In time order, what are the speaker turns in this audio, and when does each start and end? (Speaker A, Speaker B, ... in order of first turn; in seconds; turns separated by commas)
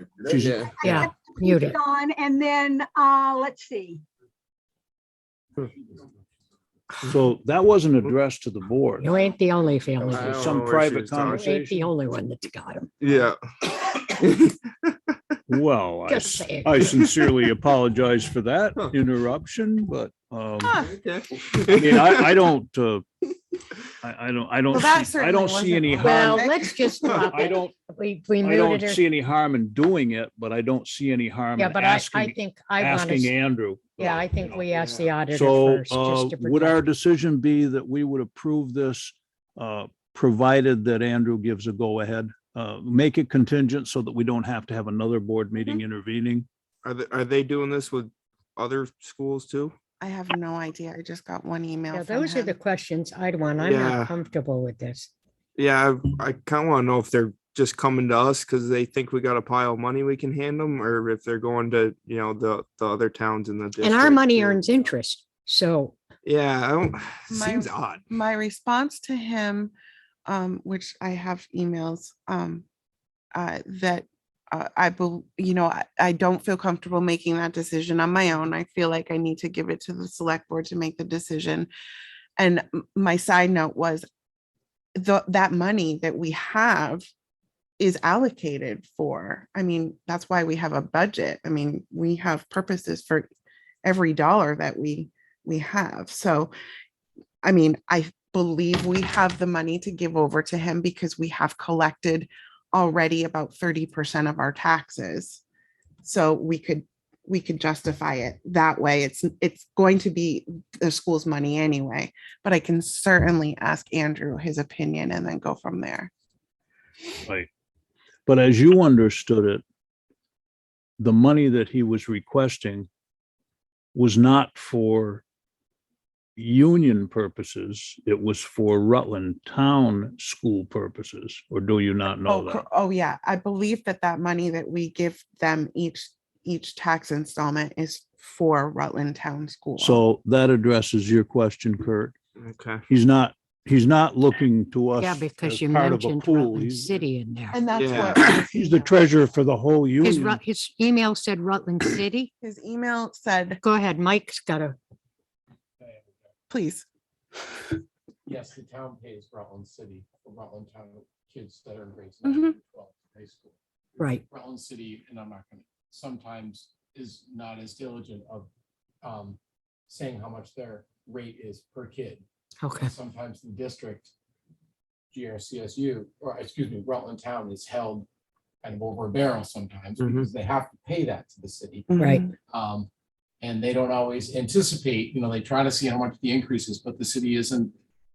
Speaker A: 0.3-1.1, Speaker B: 0.3-0.7, Speaker C: 0.7-4.0, Speaker D: 0.8-1.8, Speaker E: 5.6-6.1, Speaker A: 7.0-9.1, Speaker D: 9.0-10.4, Speaker A: 10.0-11.9, Speaker B: 10.1-11.5, Speaker D: 11.3-13.1, Speaker B: 13.0-14.9, Speaker A: 15.5-20.9, Speaker D: 16.1-16.7, Speaker F: 20.6-20.9, Speaker B: 20.8-22.3, Speaker A: 21.7-23.1, Speaker A: 24.0-26.4, Speaker F: 24.7-26.9, Speaker D: 26.0-29.0, Speaker A: 27.3-27.7, Speaker A: 28.4-34.6, Speaker D: 31.6-33.3, Speaker D: 34.0-36.8, Speaker B: 34.7-35.1, Speaker A: 35.3-46.5, Speaker B: 46.8-49.8, Speaker F: 50.0-52.6, Speaker D: 51.9-55.1, Speaker B: 53.6-54.1, Speaker B: 55.6-64.9, Speaker D: 63.8-66.0, Speaker B: 66.2-68.0, Speaker F: 67.3-69.7, Speaker F: 70.3-72.7, Speaker F: 73.3-81.7, Speaker F: 82.4-84.1, Speaker F: 85.0-87.1, Speaker F: 87.8-93.3, Speaker F: 93.8-96.5, Speaker F: 97.4-105.4, Speaker F: 106.0-116.1, Speaker A: 118.3-119.6, Speaker A: 121.0-122.9, Speaker A: 123.9-125.2, Speaker A: 126.4-132.6, Speaker F: 132.2-140.0, Speaker A: 139.8-142.2, Speaker B: 142.4-142.8, Speaker A: 142.9-147.0, Speaker D: 145.0-147.6, Speaker F: 147.5-149.0, Speaker B: 147.8-148.2, Speaker A: 147.9-150.4, Speaker D: 150.0-152.3, Speaker F: 152.4-153.6, Speaker D: 153.6-154.8, Speaker E: 155.8-156.3, Speaker F: 156.5-156.9, Speaker E: 158.2-163.6, Speaker F: 162.2-162.6, Speaker E: 164.1-168.5, Speaker E: 169.0-172.2, Speaker D: 172.6-172.9, Speaker E: 172.8-174.1, Speaker E: 175.1-178.1, Speaker E: 178.6-181.9, Speaker B: 180.0-180.3, Speaker F: 181.9-182.3, Speaker D: 182.0-182.2, Speaker E: 182.5-182.9, Speaker E: 183.4-187.7